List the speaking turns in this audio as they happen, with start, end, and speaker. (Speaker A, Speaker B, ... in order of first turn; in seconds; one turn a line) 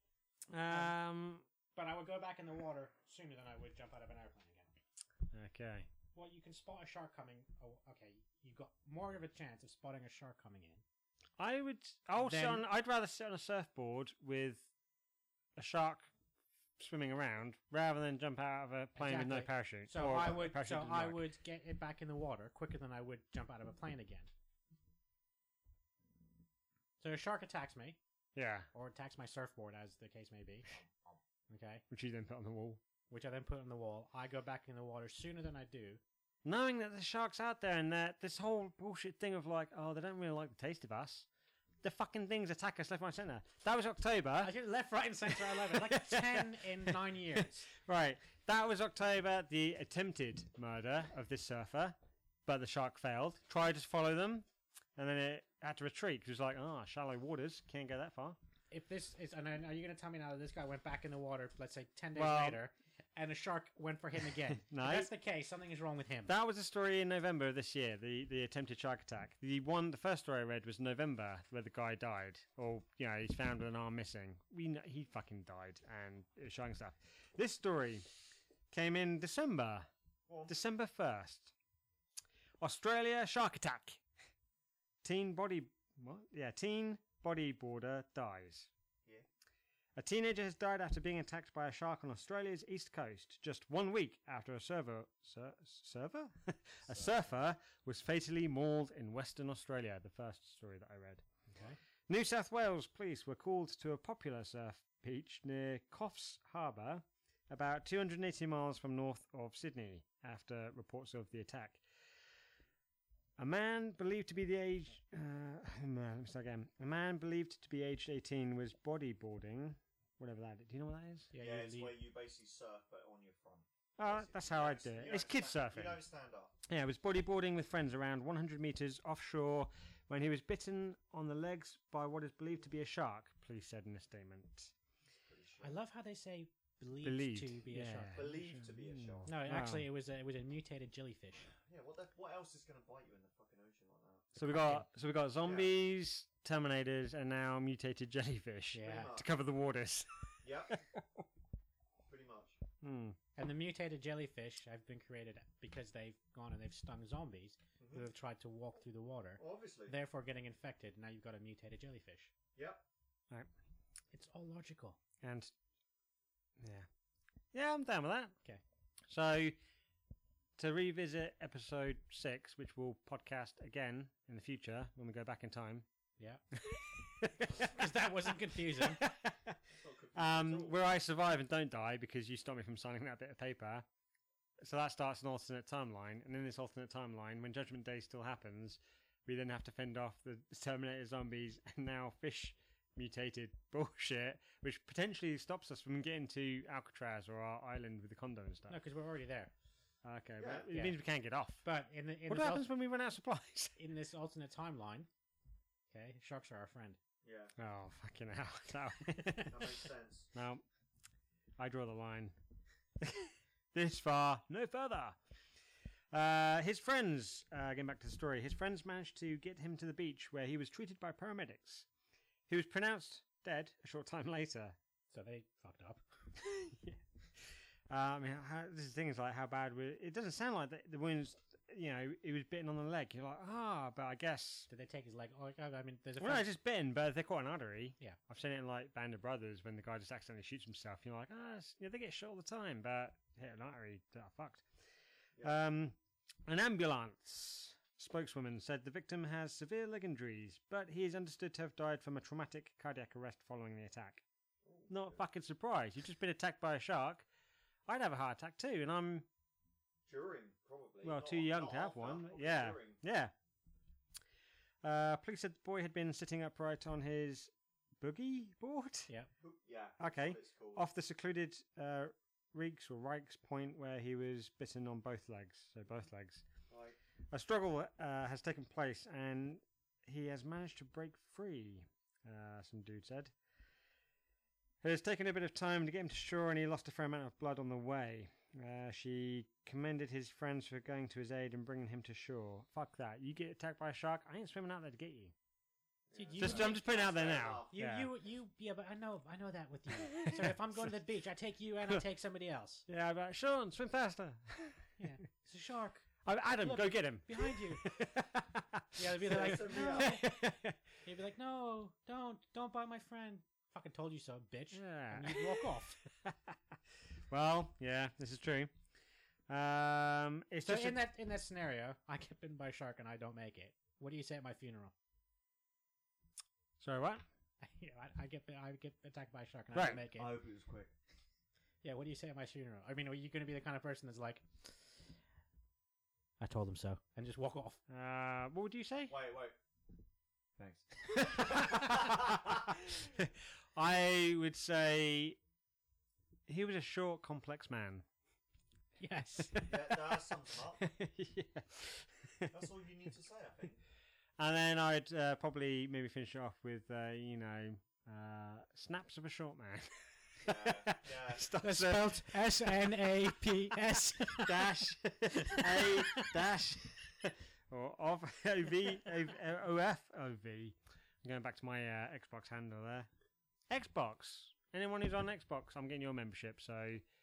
Speaker A: 0.5-1.5
Speaker B: 0.7-0.9
Speaker B: 1.7-4.7
Speaker A: 5.3-5.9
Speaker B: 6.1-10.8
Speaker A: 11.4-14.7
Speaker B: 12.2-12.6
Speaker A: 15.6-16.1
Speaker A: 16.8-21.2
Speaker B: 19.0-24.3
Speaker B: 27.0-28.0
Speaker A: 28.4-28.7
Speaker B: 28.7-30.7
Speaker C: 30.8-31.2
Speaker B: 31.5-31.8
Speaker A: 31.9-32.8
Speaker B: 33.1-36.0
Speaker A: 36.5-41.3
Speaker A: 41.8-44.5
Speaker B: 44.4-47.7
Speaker A: 45.3-58.4
Speaker B: 58.7-66.3
Speaker A: 62.1-62.6
Speaker A: 64.4-65.1
Speaker A: 66.3-78.1
Speaker A: 78.7-79.9
Speaker A: 80.5-81.5
Speaker A: 82.6-84.0
Speaker A: 85.0-88.7
Speaker A: 90.0-101.2
Speaker C: 96.9-97.2
Speaker A: 102.1-111.8
Speaker A: 113.4-121.3
Speaker B: 121.3-122.0
Speaker C: 121.4-126.6
Speaker A: 124.0-126.0
Speaker A: 126.7-134.7
Speaker C: 135.3-135.8
Speaker B: 135.6-138.4
Speaker A: 137.0-139.9
Speaker C: 138.1-139.4
Speaker B: 139.2-141.5
Speaker C: 141.5-144.4
Speaker A: 144.3-151.3
Speaker B: 144.4-144.9
Speaker C: 145.4-145.7
Speaker B: 148.7-149.1
Speaker C: 148.8-149.3
Speaker C: 150.4-150.8
Speaker C: 152.1-152.6
Speaker A: 152.8-153.2
Speaker B: 153.4-162.3
Speaker C: 157.8-158.1
Speaker C: 159.4-159.9
Speaker C: 162.6-162.8
Speaker B: 164.1-165.0
Speaker A: 165.2-165.5
Speaker A: 166.6-166.9
Speaker A: 167.5-168.3
Speaker A: 169.1-169.6
Speaker A: 170.6-175.9
Speaker A: 176.5-177.8
Speaker B: 177.4-179.1
Speaker A: 178.6-179.6
Speaker C: 179.7-180.9
Speaker A: 180.2-183.9
Speaker A: 184.6-198.8
Speaker B: 198.7-199.5
Speaker A: 200.0-201.6
Speaker C: 200.4-200.7
Speaker B: 201.6-202.7
Speaker A: 202.3-203.8
Speaker B: 203.8-205.1
Speaker B: 205.9-207.0
Speaker C: 207.2-207.6
Speaker A: 207.6-209.8
Speaker C: 209.5-210.3
Speaker A: 210.3-210.6
Speaker A: 211.6-212.3
Speaker A: 213.0-215.2
Speaker A: 216.1-221.9
Speaker A: 222.5-224.8
Speaker B: 225.1-226.0
Speaker A: 226.4-234.7
Speaker B: 234.7-236.5
Speaker A: 236.2-244.7
Speaker A: 245.4-254.2
Speaker C: 254.7-255.2
Speaker A: 254.9-257.3
Speaker A: 257.9-259.3
Speaker C: 260.1-263.0
Speaker A: 261.0-263.3
Speaker A: 264.8-269.1
Speaker C: 269.4-270.9
Speaker A: 270.0-276.4
Speaker C: 276.7-277.0
Speaker A: 277.3-283.3
Speaker A: 284.8-295.3
Speaker C: 296.1-297.8
Speaker B: 296.1-296.8
Speaker A: 296.4-298.1
Speaker B: 297.7-302.9
Speaker A: 300.0-300.8
Speaker A: 302.9-304.9
Speaker B: 305.0-307.9
Speaker A: 306.2-310.8
Speaker B: 308.9-310.4
Speaker C: 309.2-310.2
Speaker B: 311.0-316.0
Speaker A: 314.7-316.6
Speaker A: 317.3-318.7
Speaker A: 319.5-321.0
Speaker B: 320.6-324.9
Speaker A: 326.8-327.2
Speaker B: 327.6-330.4
Speaker A: 329.7-330.0
Speaker C: 329.8-330.9
Speaker B: 331.8-335.1
Speaker B: 336.4-337.8
Speaker A: 337.9-339.1
Speaker C: 339.1-339.6
Speaker C: 340.6-342.6
Speaker A: 341.1-345.4
Speaker A: 346.5-348.1
Speaker B: 349.0-349.6
Speaker A: 349.5-350.1
Speaker C: 349.6-350.8
Speaker A: 350.8-352.5
Speaker C: 352.5-353.8
Speaker A: 354.4-373.1
Speaker C: 360.4-361.5
Speaker B: 361.6-364.7
Speaker B: 365.4-366.3
Speaker A: 373.7-377.0